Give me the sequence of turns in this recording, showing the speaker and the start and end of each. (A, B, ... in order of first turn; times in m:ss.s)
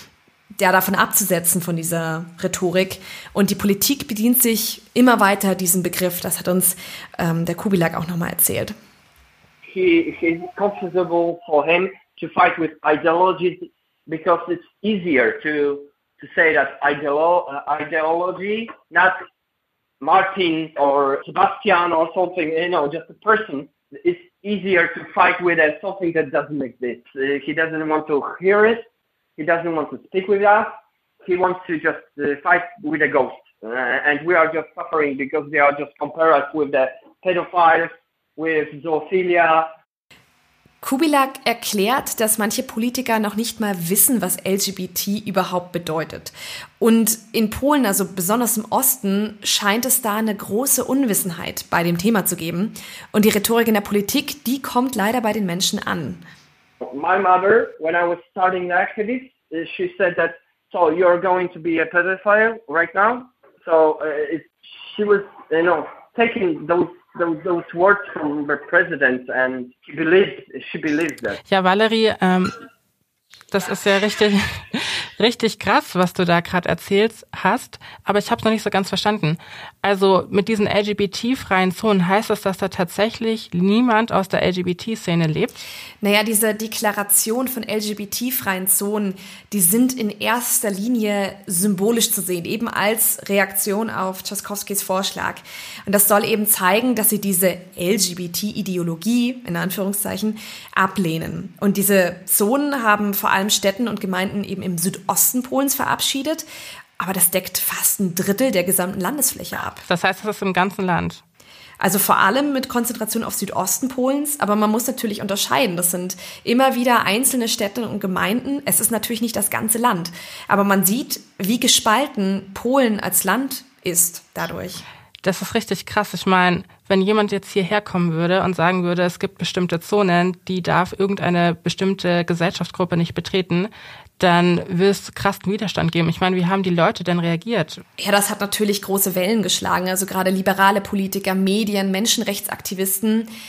0:00.6-0:08.8 A
0:09.7-0:19.2 B
0:20.0-0:28.8 B
0:29.4-0:39.7 B
0:40.8-0:56.2 A
0:56.8-1:11.4 B
1:11.5-1:12.6 C
1:13.5-1:25.6 C
1:26.0-1:46.4 A
1:47.0-1:49.8 A
1:49.9-1:51.2 C
1:51.8-2:04.8 A
2:05.2-2:17.8 C
2:18.0-2:23.3 A